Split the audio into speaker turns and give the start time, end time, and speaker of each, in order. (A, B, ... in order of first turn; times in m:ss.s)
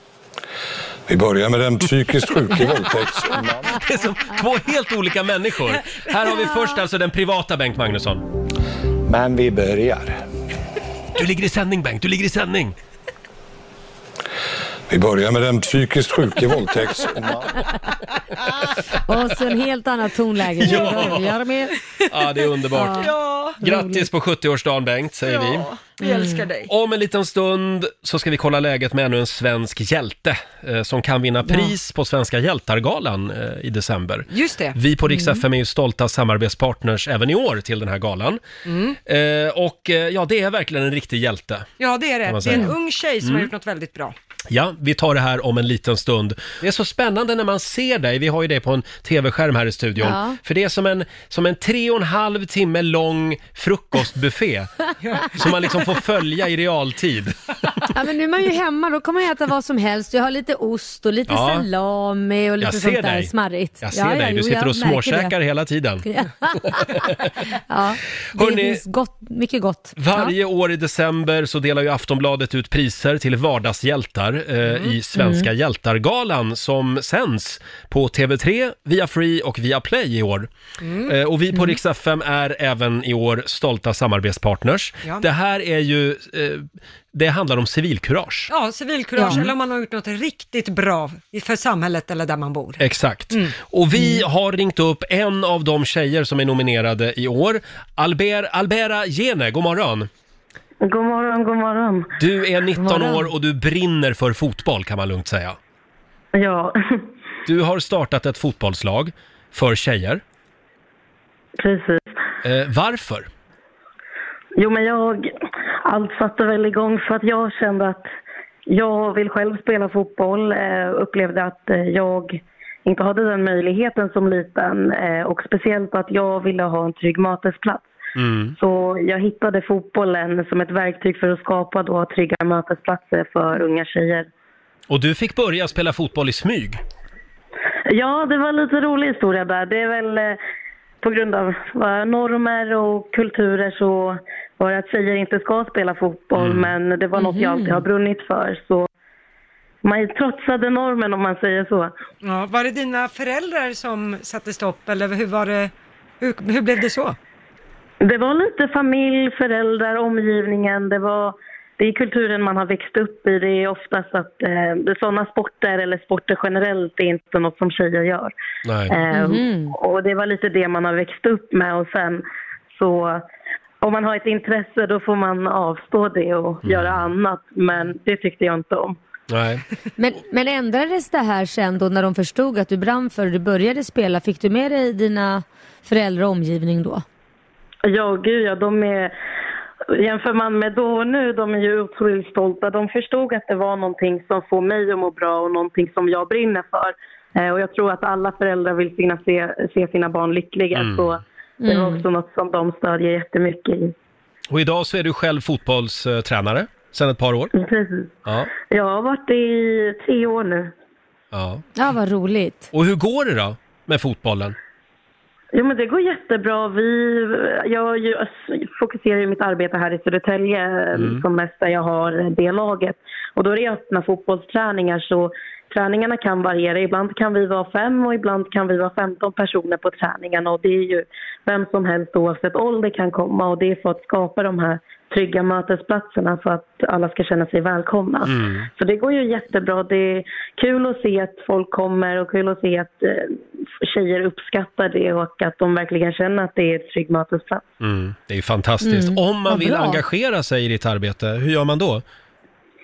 0:01.1-0:03.8 A
0:03.7-0:08.2 B
0:06.1-0:06.5 C
0:09.1-0:10.2 A
0:11.2-0:12.8 B
0:14.9-0:17.5 A
0:19.1-0:21.8 D
0:20.6-0:21.3 B
0:22.1-0:25.7 B
0:22.8-0:24.1 D
0:23.0-0:23.6 C
0:25.2-0:26.7 C
0:26.0-0:26.5 D
0:26.7-0:38.4 B
0:31.5-0:31.7 D
0:34.3-0:34.8 C
0:35.1-0:35.4 D
0:38.6-0:39.0 C
0:39.1-0:41.7 B
0:41.8-0:44.2 C
0:42.3-0:43.5 B
0:44.5-0:57.4 B
0:50.0-0:50.4 D
0:57.9-1:05.4 D
1:01.3-1:01.7 B
1:02.6-1:06.1 B
1:06.0-1:07.1 D
1:06.6-1:07.2 B
1:07.7-1:10.3 D
1:08.4-1:08.8 B
1:10.0-1:20.5 B
1:15.2-1:15.5 D
1:20.8-1:21.1 C
1:21.1-1:28.5 B
1:28.5-1:33.5 C
1:29.2-1:29.4 D
1:29.2-1:29.5 B
1:32.8-1:40.1 B
1:40.8-1:42.1 E
1:42.2-1:45.6 B
1:42.8-1:43.3 D
1:46.4-1:47.0 E
1:47.5-1:50.2 B
1:51.6-1:52.1 E
1:52.4-1:53.3 B
1:54.6-1:55.3 E
1:55.8-1:58.1 E
1:58.7-2:07.9 E
2:08.2-2:08.6 B
2:08.6-2:14.3 E
2:14.9-2:16.8 B
2:17.9-2:20.4 E
2:21.0-2:28.9 E
2:26.4-2:26.7 B
2:27.2-2:27.8 D
2:29.8-2:31.9 E
2:32.2-2:37.2 C
2:38.0-2:48.3 E
2:48.6-2:48.9 B
2:48.9-2:52.2 E
2:49.1-2:49.7 D
2:52.8-2:53.2 E
2:53.8-2:59.0 E
2:56.6-2:57.1 B
2:59.3-2:59.6 B
3:00.0-3:07.0 D
3:07.9-3:09.1 E
3:09.9-3:23.9 E
3:20.8-3:21.1 B
3:21.6-3:22.0 D
3:24.5-3:27.5 B
3:27.5-3:28.1 E
3:28.3-3:28.5 B
3:28.7-3:30.7 E
3:31.3-3:31.6 B
3:31.8-3:32.7 D
3:32.7-3:34.6 B
3:35.5-4:07.6 E
3:41.0-3:41.2 B
3:58.3-3:58.7 B
4:07.8-4:12.0 B
4:08.8-4:10.0 D